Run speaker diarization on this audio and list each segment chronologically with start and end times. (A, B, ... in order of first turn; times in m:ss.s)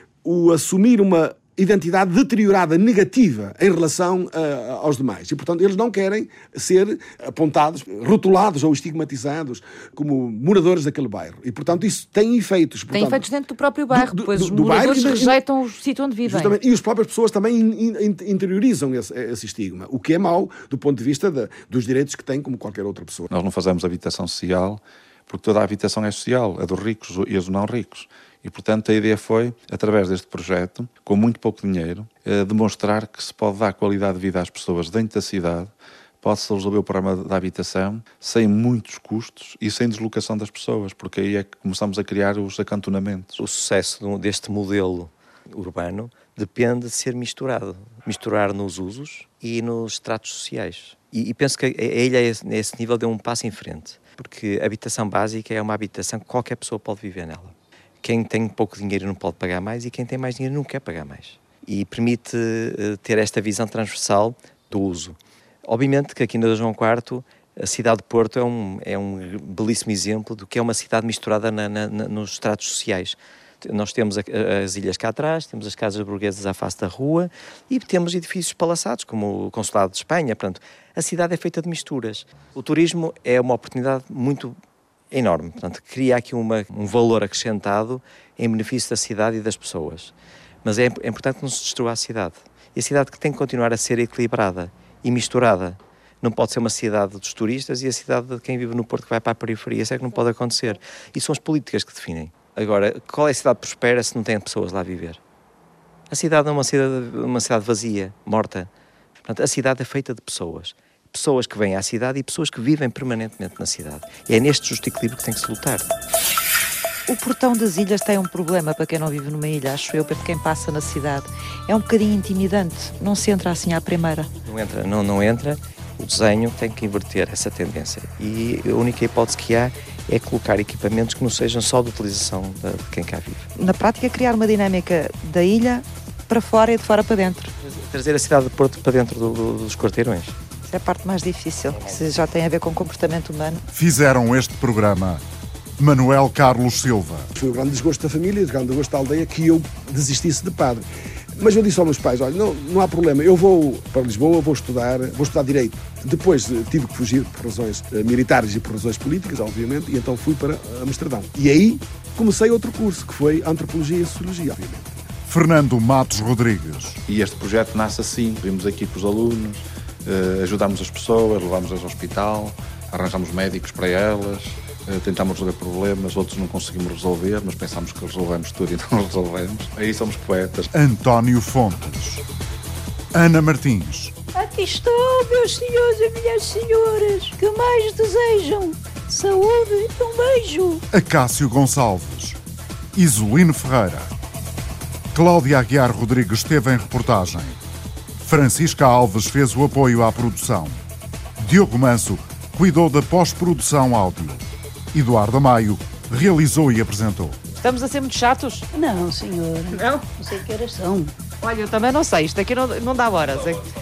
0:00.2-0:13.3 A
0:12.9-0:16.6 B
0:13.9-0:15.4 A
0:16.2-0:23.3 A
0:23.3-0:43.4 C
0:43.4-1:24.6 D
1:25.1-1:30.1 D
1:30.6-1:45.2 D
1:46.1-1:55.9 D
1:57.1-2:04.3 B
2:04.4-2:13.5 D
2:13.6-2:17.5 B
2:17.6-2:20.4 D
2:20.7-2:23.6 B
2:23.7-2:25.2 E
2:25.8-2:27.3 E
2:27.3-2:45.0 A
2:45.2-2:47.0 E
2:47.0-3:00.7 C
3:00.7-3:02.2 E
3:03.1-3:04.1 E
3:04.3-3:10.8 F
3:10.9-3:12.4 E
3:12.9-3:14.1 E
3:15.1-3:17.6 E
3:18.2-3:20.8 E
3:21.4-3:27.4 E
3:27.5-3:28.6 B
3:28.7-3:31.1 F
3:29.8-3:30.0 B
3:31.4-3:33.6 B